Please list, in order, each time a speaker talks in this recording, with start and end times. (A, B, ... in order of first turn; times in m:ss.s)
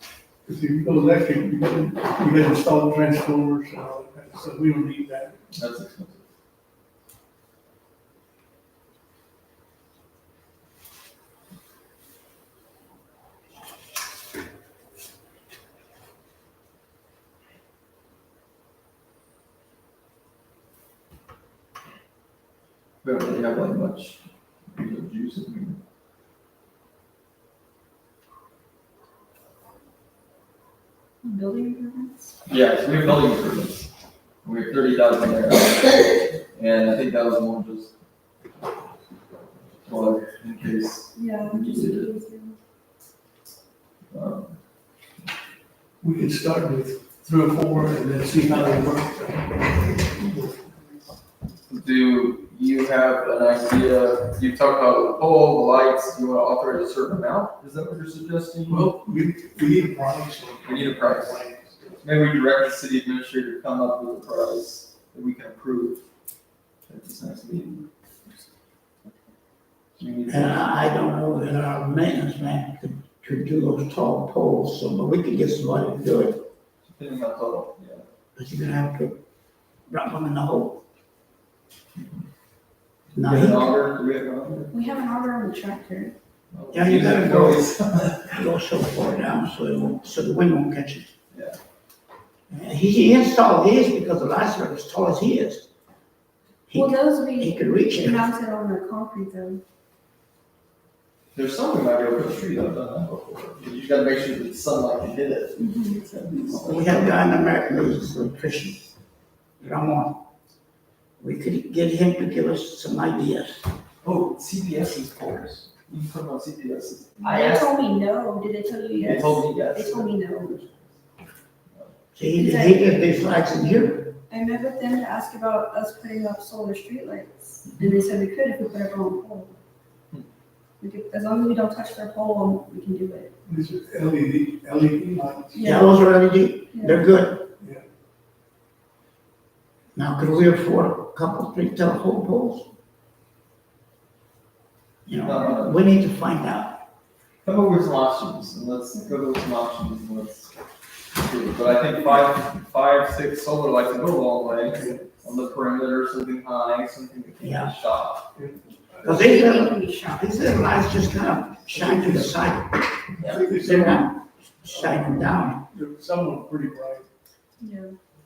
0:00.4-0:05.4 A
0:05.5-0:06.2 B
0:23.0-0:24.2 B
0:24.7-0:25.8 B
0:31.2-0:32.3 C
0:32.5-0:33.9 B
0:34.4-0:37.9 B
0:39.8-0:42.1 B
0:41.1-0:42.6 C
0:44.1-0:44.5 B
0:46.0-0:51.0 A
0:51.7-0:58.9 B
0:58.7-1:02.0 A
1:00.6-1:01.4 B
1:02.0-1:06.0 B
1:06.9-1:08.4 B
1:10.0-1:10.8 B
1:10.3-1:16.4 D
1:16.8-1:18.0 B
1:18.4-1:19.2 D
1:19.9-1:20.8 D
1:23.1-1:23.7 D
1:23.2-1:24.7 B
1:24.7-1:26.1 C
1:26.5-1:28.4 B
1:26.7-1:27.7 D
1:28.3-1:31.1 D
1:31.3-1:31.6 B
1:32.5-1:35.6 D
1:36.7-1:38.3 D
1:36.7-1:39.6 C
1:41.3-1:47.2 B
1:45.6-1:46.6 C
1:46.5-1:48.8 D
1:49.6-1:50.2 D
1:51.2-1:53.7 D
1:54.0-1:57.8 B
1:57.2-2:00.6 C
1:59.0-2:00.9 B
2:02.1-2:04.2 D
2:02.4-2:03.0 C
2:04.3-2:09.5 C
2:07.6-2:08.0 B
2:10.8-2:13.3 C
2:13.4-2:15.7 A
2:15.5-2:16.0 C
2:15.6-2:17.5 D
2:16.7-2:17.0 C
2:19.9-2:22.7 D
2:25.0-2:26.8 D
2:25.2-2:25.8 B
2:27.4-2:30.5 B
2:31.2-2:38.2 B
2:37.4-2:37.7 D
2:38.3-2:39.3 A
2:39.0-2:42.9 D
2:39.0-2:40.2 C
2:41.7-2:42.4 A
2:43.2-2:43.5 B
2:43.2-2:44.1 A
2:43.5-2:45.6 D
2:45.6-2:47.1 A
2:47.6-2:47.9 C